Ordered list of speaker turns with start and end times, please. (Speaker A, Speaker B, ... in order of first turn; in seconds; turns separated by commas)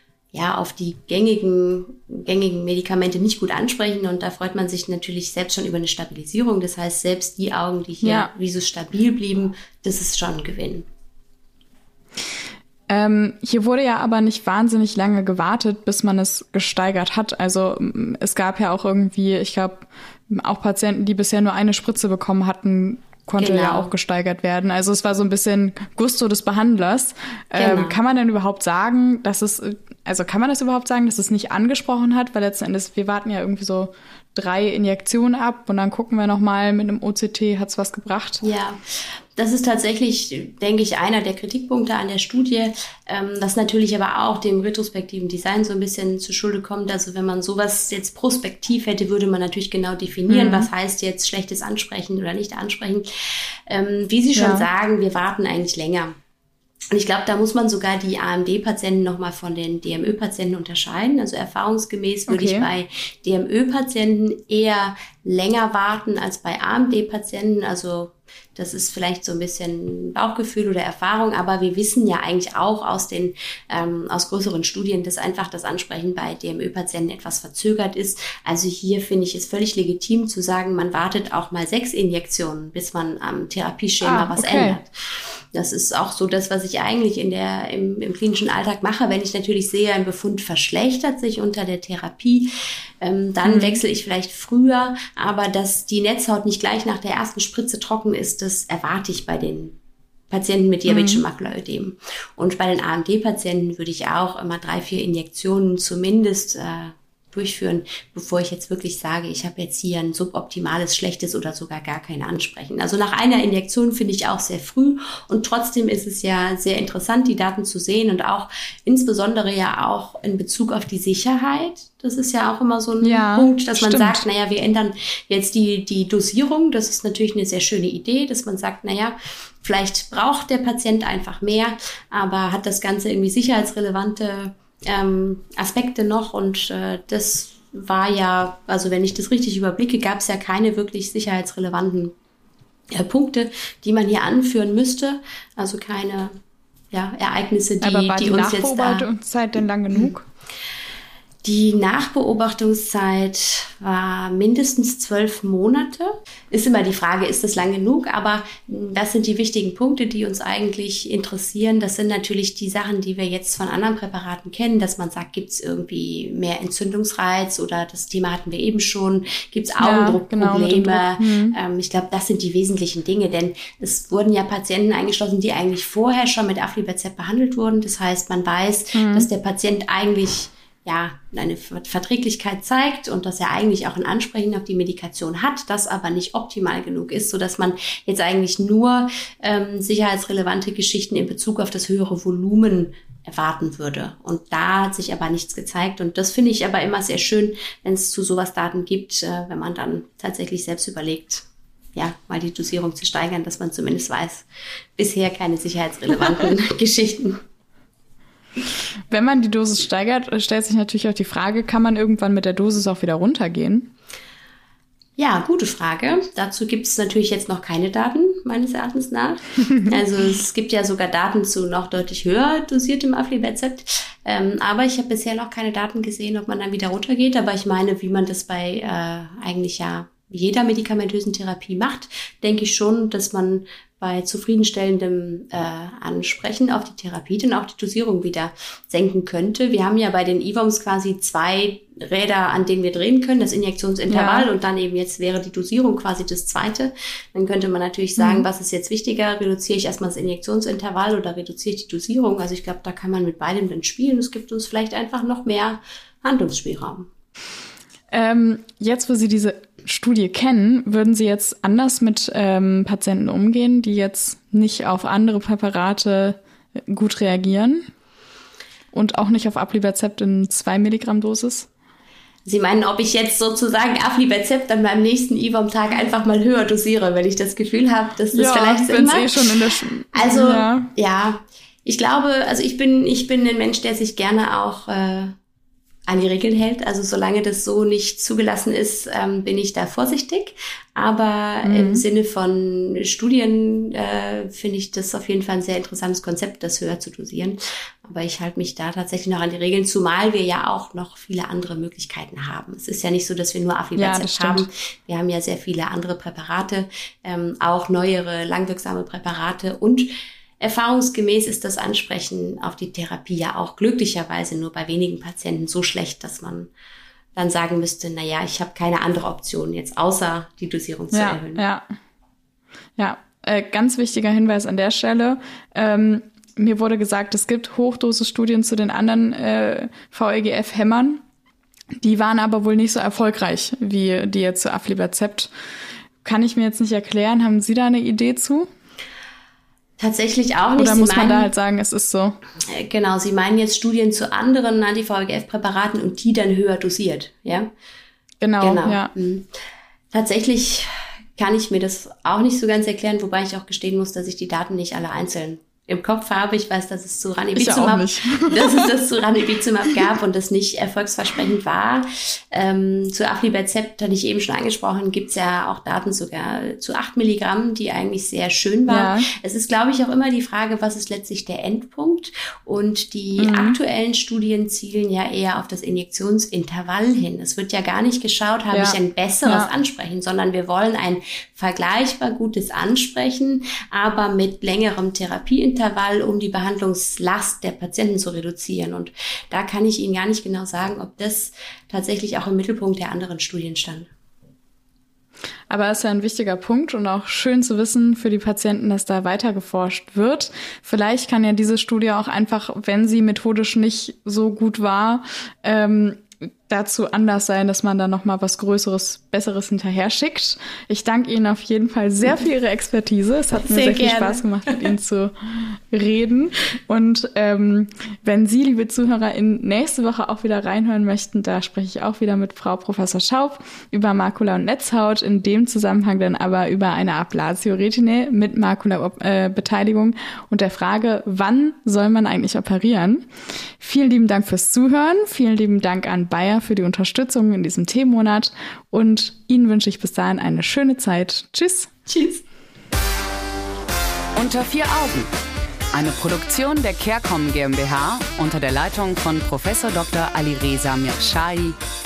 Speaker A: 0.3-10.9, Speaker B: 8.0-8.3, Speaker B: 12.9-38.4, Speaker A: 23.4-23.9, Speaker A: 27.5-28.0, Speaker A: 38.4-38.8, Speaker A: 39.4-53.1, Speaker B: 50.3-50.7, Speaker A: 53.7-56.1, Speaker B: 54.3-54.7, Speaker A: 56.9-84.9, Speaker B: 62.3-62.7, Speaker B: 84.0-84.8, Speaker A: 85.5-92.5, Speaker A: 93.0-99.8, Speaker B: 93.4-93.8, Speaker A: 100.3-142.1, Speaker B: 100.9-101.2, Speaker B: 123.0-124.2, Speaker A: 142.9-146.3, Speaker A: 146.9-149.1, Speaker B: 147.8-150.2, Speaker A: 151.4-204.4, Speaker B: 169.8-171.6, Speaker B: 178.9-179.3, Speaker A: 205.0-207.4, Speaker B: 209.1-213.9, Speaker A: 215.2-257.1, Speaker B: 244.1-244.5, Speaker B: 248.2-248.5, Speaker B: 258.1-266.4, Speaker B: 266.9-267.8, Speaker B: 268.9-271.7, Speaker A: 272.4-279.5, Speaker B: 278.3-280.9, Speaker A: 280.1-285.3, Speaker A: 286.1-310.1, Speaker B: 291.6-292.1, Speaker B: 303.9-304.7, Speaker A: 310.6-316.7, Speaker A: 317.3-321.6, Speaker B: 321.1-321.9, Speaker B: 323.0-331.2, Speaker B: 332.0-335.5, Speaker B: 336.2-338.7, Speaker A: 340.0-341.5, Speaker B: 340.8-342.4, Speaker A: 342.7-347.7, Speaker B: 348.4-349.1, Speaker A: 348.6-349.5, Speaker A: 350.1-394.1, Speaker B: 357.5-358.9, Speaker B: 368.9-369.3, Speaker B: 373.4-373.8, Speaker B: 378.7-379.7, Speaker B: 395.7-433.3, Speaker A: 413.6-414.8, Speaker B: 433.8-441.9, Speaker A: 442.1-442.4, Speaker C: 444.3-445.3, Speaker C: 445.9-451.8